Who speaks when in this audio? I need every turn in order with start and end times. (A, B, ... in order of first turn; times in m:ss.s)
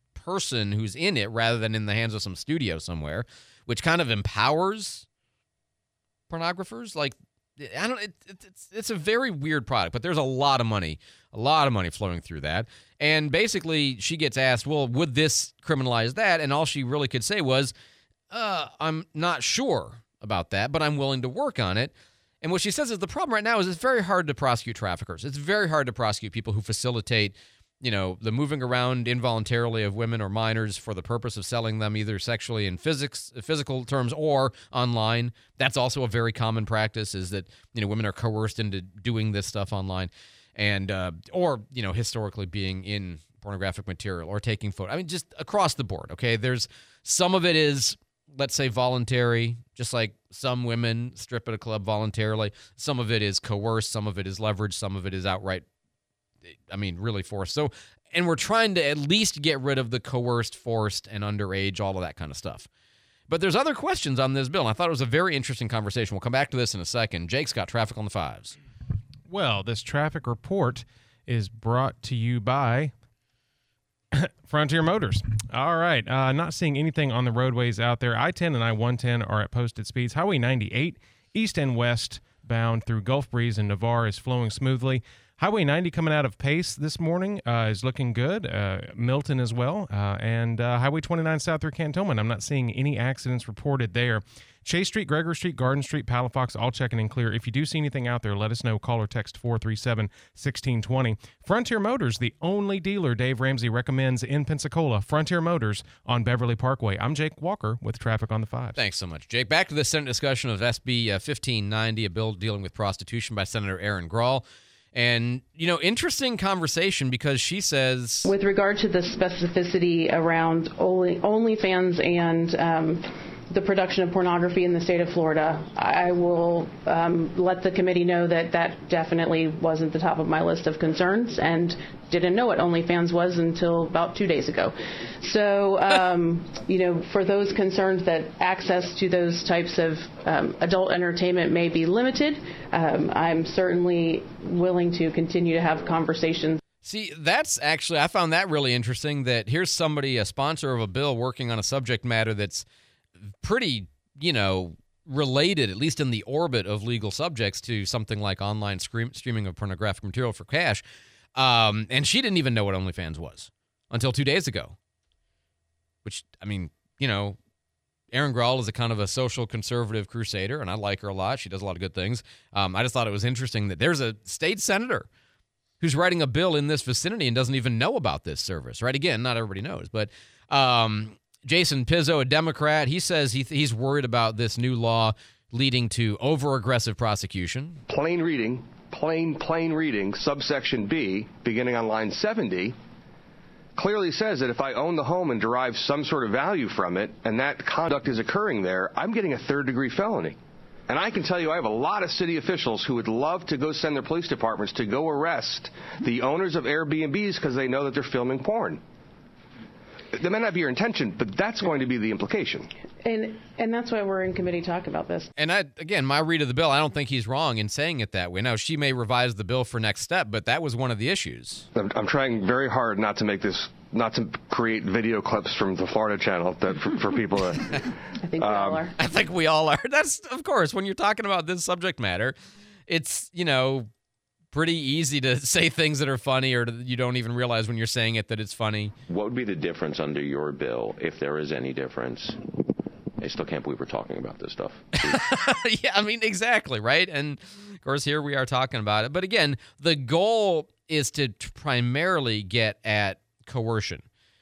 0:00.1-0:05.0 A
0:06.3-0:17.7 A
0:18.3-0:55.6 A
0:56.7-1:02.7 A
1:03.3-1:08.5 A
1:09.3-1:12.9 B
1:14.1-1:48.8 B
1:48.8-1:58.3 A
1:58.2-2:26.6 C
2:26.8-2:32.6 A
2:33.4-2:40.8 A
2:41.4-2:44.7 A
2:46.0-2:47.4 A
2:48.1-2:55.1 A
2:55.8-3:07.8 A
3:07.9-3:12.8 D
3:13.8-3:20.4 D
3:20.9-3:28.8 D
3:30.1-3:32.7 D
3:33.0-3:35.3 C
3:35.4-3:41.6 A
3:41.8-3:47.8 D
3:48.2-3:49.0 C
3:48.4-3:48.8 D
3:49.0-3:52.3 A
3:52.9-3:53.9 A
3:54.5-3:58.9 A
3:59.1-4:02.4 E
4:03.2-4:05.2 E
4:05.1-4:14.0 A